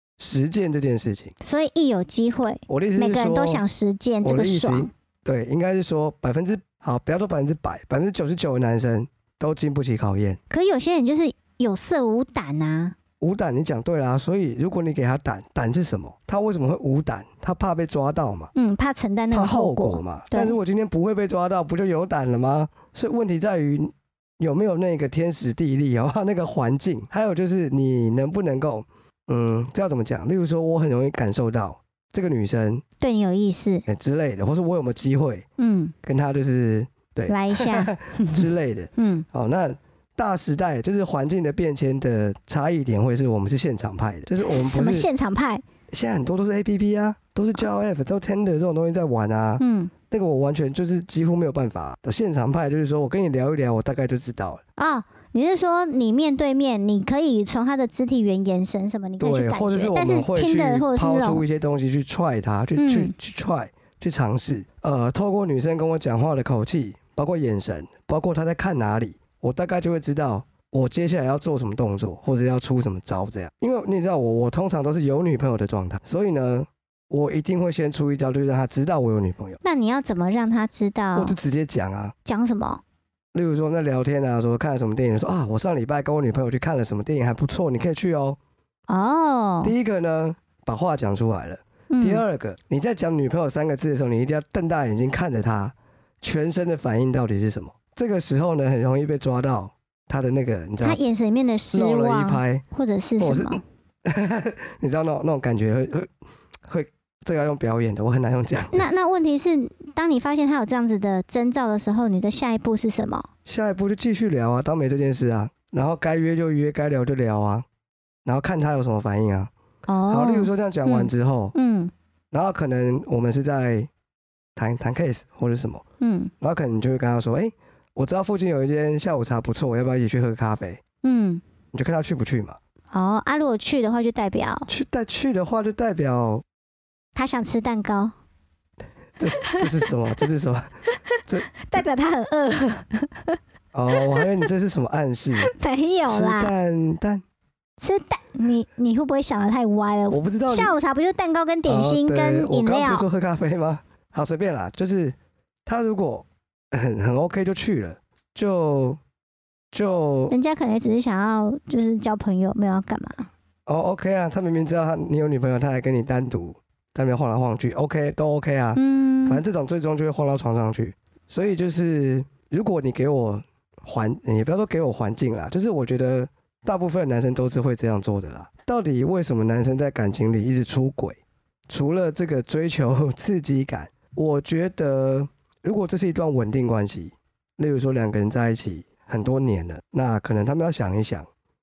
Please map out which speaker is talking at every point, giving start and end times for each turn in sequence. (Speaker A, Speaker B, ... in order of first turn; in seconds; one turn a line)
Speaker A: 0.2-1.3
Speaker B: 1.4-4.9
Speaker A: 2.7-3.6
Speaker A: 4.2-10.4
Speaker B: 10.5-12.9
Speaker A: 13.2-18.5
Speaker B: 18.5-20.6
Speaker A: 19.3-32.8
Speaker B: 33.0-33.9
Speaker A: 33.9-35.5
Speaker B: 35.6-35.9
Speaker A: 36.0-45.1
Speaker B: 37.3-38.5
Speaker B: 39.0-39.3
Speaker B: 44.5-45.6
Speaker A: 45.9-54.6
Speaker B: 49.6-49.9
Speaker B: 54.8-61.4
Speaker A: 59.2-79.6
Speaker B: 62.8-63.1
Speaker B: 79.6-81.4
Speaker A: 81.2-82.1
Speaker B: 82.2-82.8
Speaker A: 83.3-88.4
Speaker B: 88.9-89.7
Speaker A: 89.6-101.0
Speaker B: 91.9-92.2
Speaker B: 100.8-103.6
Speaker A: 101.7-102.6
Speaker A: 103.2-106.1
Speaker A: 106.7-108.9
Speaker B: 108.7-113.3
Speaker A: 113.5-117.7
Speaker A: 118.2-119.5
Speaker B: 119.9-121.9
Speaker A: 120.1-121.5
Speaker A: 122.3-123.9
Speaker A: 124.6-125.8
Speaker B: 126.0-126.3
Speaker A: 126.4-130.8
Speaker B: 131.0-131.4
Speaker A: 131.7-132.6
Speaker B: 132.9-134.7
Speaker A: 134.7-136.4
Speaker B: 137.2-138.1
Speaker A: 139.2-140.7
Speaker B: 139.4-139.9
Speaker B: 141.0-143.4
Speaker A: 141.2-141.8
Speaker A: 143.7-145.5
Speaker B: 143.9-144.3
Speaker B: 145.4-146.5
Speaker A: 146.1-147.2
Speaker B: 147.8-153.1
Speaker A: 150.1-150.8
Speaker A: 151.7-159.0
Speaker A: 159.7-160.3
Speaker B: 160.3-163.3
Speaker A: 163.7-191.3
Speaker B: 168.8-169.4